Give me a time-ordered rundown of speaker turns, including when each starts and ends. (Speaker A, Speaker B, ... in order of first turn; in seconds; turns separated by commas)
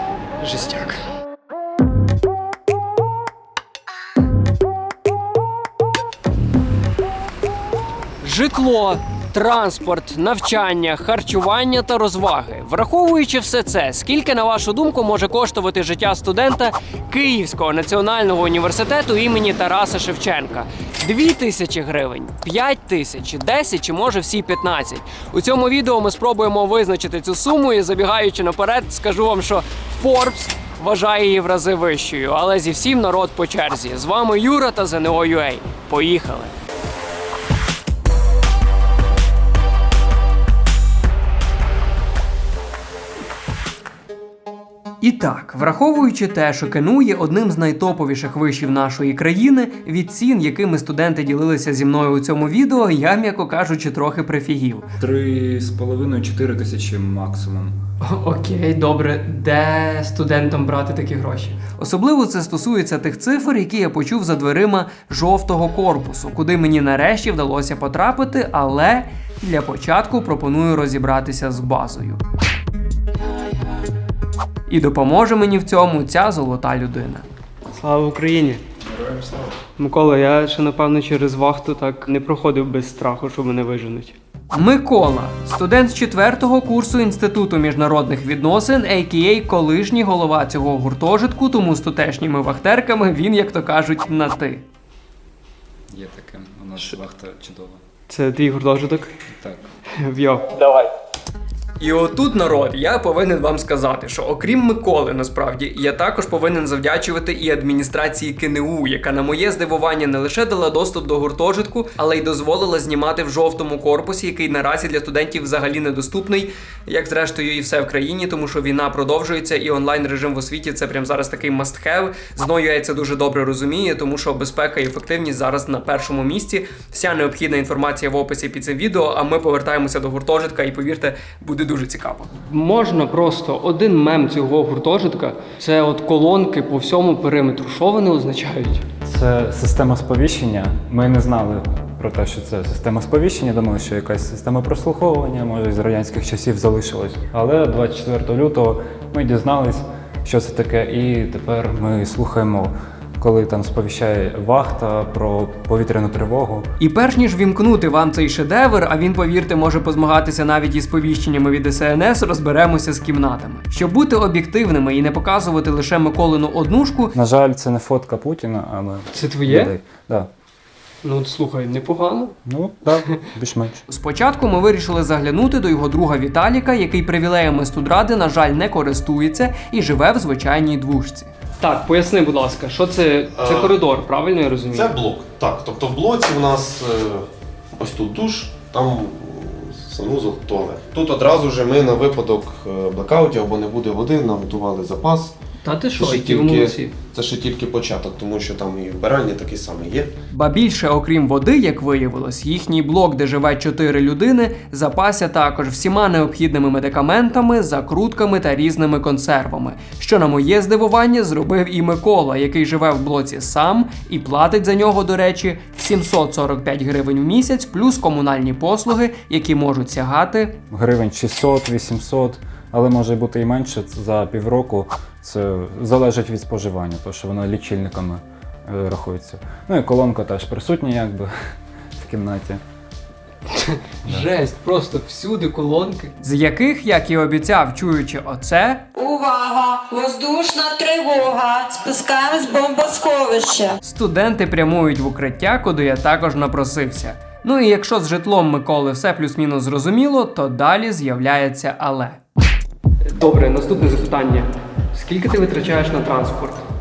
Speaker A: 0.4-1.0, Speaker A: 8.2-36.5, Speaker A: 45.0-54.9, Speaker B: 55.0-57.8, Speaker A: 58.0-72.2, Speaker A: 74.7-78.6, Speaker B: 78.9-79.5, Speaker A: 79.8-94.6, Speaker B: 95.9-97.8, Speaker A: 98.1-99.1, Speaker B: 99.3-99.7, Speaker A: 99.9-100.9, Speaker A: 101.8-138.9, Speaker B: 139.0-156.7, Speaker A: 156.8-167.2, Speaker B: 167.2-170.3, Speaker A: 169.1-169.7, Speaker A: 171.0-172.4, Speaker B: 172.5-173.8, Speaker A: 173.9-185.0, Speaker C: 183.3-183.8, Speaker C: 184.7-195.3, Speaker A: 195.6-196.9, Speaker C: 195.9-200.1, Speaker A: 200.3-220.6, Speaker B: 220.7-231.3, Speaker B: 232.0-232.6, Speaker A: 233.5-238.9, Speaker D: 238.9-243.8, Speaker A: 243.8-252.2, Speaker A: 253.1-256.6